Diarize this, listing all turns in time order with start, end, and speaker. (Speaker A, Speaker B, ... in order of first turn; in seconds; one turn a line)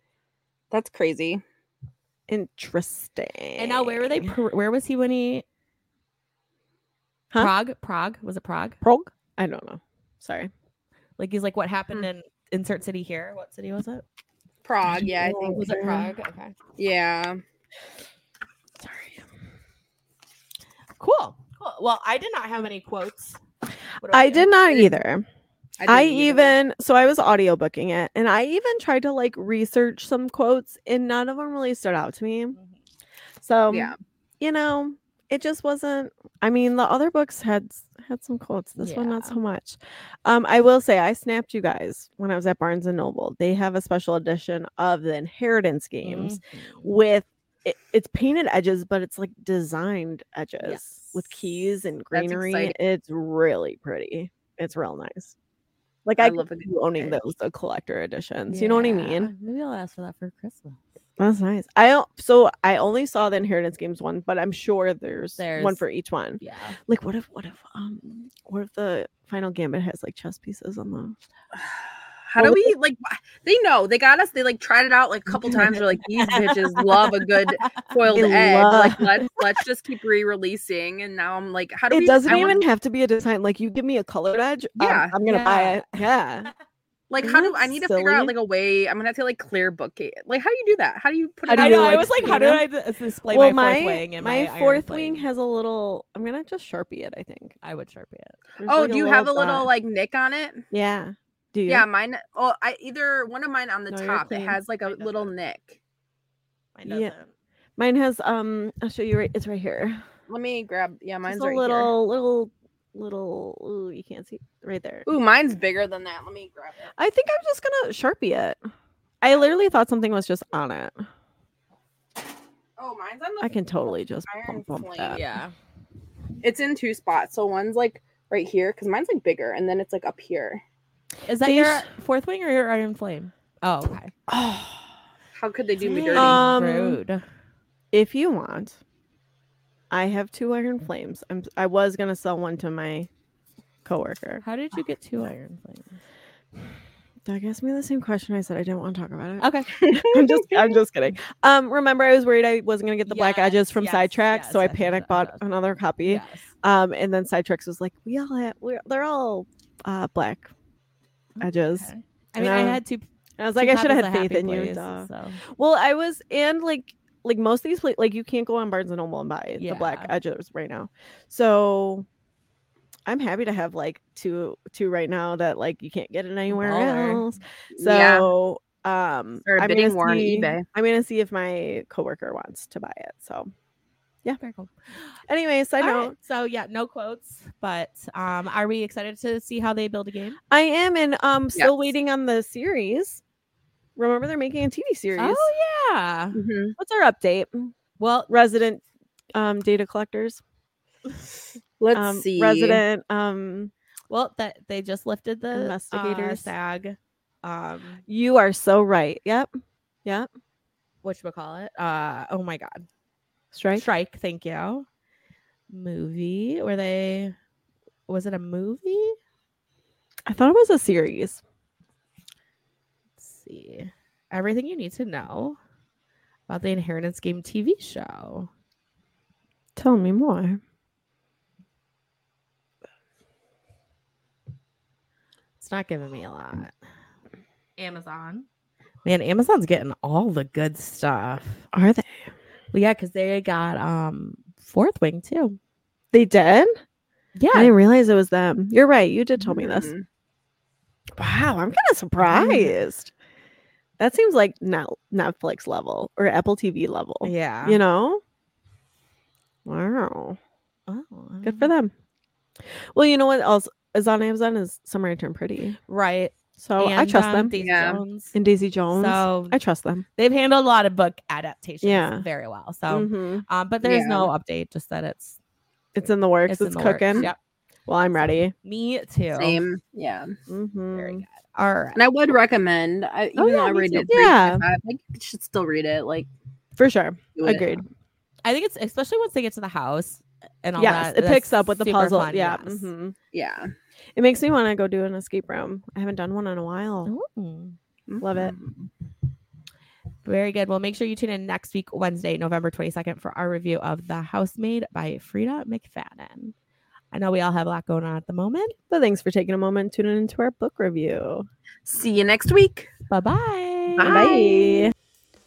Speaker A: 0.7-1.4
Speaker B: 2.3-4.3
Speaker C: 3.6-5.4
Speaker C: 7.3-8.8
Speaker B: 8.8-10.5
Speaker C: 11.2-14.0
Speaker A: 14.6-16.1
Speaker B: 15.2-16.0
Speaker C: 15.3-16.6
Speaker A: 16.8-17.4
Speaker B: 18.8-19.2
Speaker C: 21.0-23.4
Speaker C: 24.0-24.9
Speaker B: 24.1-25.2
Speaker A: 25.8-26.5
Speaker B: 25.9-32.6
Speaker B: 33.4-55.3
Speaker A: 33.7-34.0
Speaker C: 38.8-39.4
Speaker C: 46.0-46.9
Speaker C: 50.6-51.5
Speaker A: 52.1-52.7
Speaker B: 56.0-59.3
Speaker A: 56.2-57.2
Speaker C: 58.5-60.8
Speaker B: 61.2-71.2
Speaker C: 65.4-65.8
Speaker C: 66.4-66.8
Speaker A: 72.3-82.6
Speaker B: 72.4-72.7
Speaker B: 75.5-75.8
Speaker C: 76.2-77.9
Speaker B: 78.0-79.3
Speaker B: 81.9-86.5
Speaker A: 84.8-85.1
Speaker C: 85.2-85.9
Speaker A: 87.1-92.5
Speaker B: 87.2-88.3
Speaker B: 91.5-92.6
Speaker C: 91.5-95.2
Speaker B: 93.3-97.5
Speaker C: 97.6-98.4
Speaker B: 98.6-99.7
Speaker A: 98.6-100.7
Speaker B: 100.7-101.8
Speaker A: 101.7-105.8
Speaker B: 103.9-104.6
Speaker C: 104.8-105.3
Speaker C: 106.8-107.3
Speaker B: 106.9-107.1
Speaker B: 107.8-110.0
Speaker A: 110.3-111.9
Speaker B: 111.2-115.1
Speaker A: 115.0-116.9
Speaker B: 117.0-118.6
Speaker B: 119.2-121.0
Speaker A: 122.8-125.2
Speaker B: 123.4-125.2
Speaker C: 125.1-125.5
Speaker A: 126.4-130.6
Speaker C: 131.2-134.1
Speaker B: 131.4-131.9
Speaker B: 134.3-134.8
Speaker A: 135.3-136.5
Speaker C: 135.8-137.2
Speaker B: 136.1-137.0
Speaker B: 137.9-138.8
Speaker B: 139.9-143.1
Speaker B: 143.8-144.4
Speaker C: 144.4-146.0
Speaker B: 147.2-160.5
Speaker C: 149.4-149.7
Speaker A: 149.7-150.8
Speaker C: 153.1-155.4
Speaker C: 156.0-156.5
Speaker C: 161.4-165.4
Speaker B: 161.4-162.8
Speaker B: 163.4-172.1
Speaker C: 169.6-170.1
Speaker B: 173.1-183.5
Speaker C: 176.5-177.2
Speaker A: 177.7-178.3
Speaker A: 179.4-180.6
Speaker C: 184.4-185.2
Speaker B: 185.3-186.1
Speaker C: 185.8-190.4
Speaker B: 190.5-193.2
Speaker B: 193.9-195.5
Speaker C: 195.2-196.4
Speaker A: 196.3-196.8
Speaker B: 196.8-197.7
Speaker C: 198.0-198.3
Speaker B: 198.3-198.8
Speaker B: 199.3-200.4
Speaker A: 201.8-202.8
Speaker B: 201.9-203.7
Speaker C: 204.1-208.0
Speaker B: 205.5-206.5
Speaker B: 208.1-209.5
Speaker C: 211.0-212.9
Speaker B: 213.5-213.8
Speaker C: 213.7-214.8
Speaker C: 215.7-217.3
Speaker C: 218.1-219.2
Speaker B: 220.3-221.4
Speaker C: 223.2-225.6
Speaker C: 226.5-228.5
Speaker B: 229.8-230.6
Speaker C: 235.6-236.7
Speaker C: 237.8-238.5
Speaker C: 239.0-241.7
Speaker B: 241.7-242.3
Speaker C: 242.7-245.6
Speaker B: 246.1-246.7
Speaker C: 247.3-247.7
Speaker B: 247.5-249.9
Speaker A: 249.5-250.0
Speaker B: 251.2-253.1
Speaker C: 252.2-252.7
Speaker B: 254.0-258.2
Speaker C: 257.2-257.8
Speaker B: 259.6-260.4
Speaker C: 260.9-261.7
Speaker B: 261.4-261.9
Speaker B: 262.6-265.8
Speaker C: 265.9-268.3
Speaker B: 266.6-267.5
Speaker A: 267.6-268.0
Speaker B: 268.3-270.0
Speaker C: 268.9-269.6
Speaker C: 270.1-275.4
Speaker B: 271.8-272.2
Speaker B: 272.9-273.4
Speaker A: 273.8-274.3
Speaker B: 275.9-277.3
Speaker C: 276.5-277.4
Speaker B: 277.9-278.5
Speaker C: 278.6-279.6
Speaker A: 279.4-280.4
Speaker B: 280.5-281.2
Speaker C: 280.9-282.0
Speaker A: 281.9-286.3
Speaker B: 283.4-284.6
Speaker B: 286.8-287.8
Speaker A: 287.4-287.8
Speaker C: 288.4-292.9
Speaker B: 290.8-293.1
Speaker A: 293.3-293.7
Speaker B: 294.1-297.1
Speaker C: 297.1-297.8
Speaker A: 298.1-298.9
Speaker B: 298.2-298.5
Speaker C: 300.2-306.5
Speaker C: 307.1-308.7
Speaker B: 308.9-311.4
Speaker A: 311.9-312.9
Speaker C: 313.1-314.4
Speaker A: 314.0-314.9
Speaker B: 314.0-314.9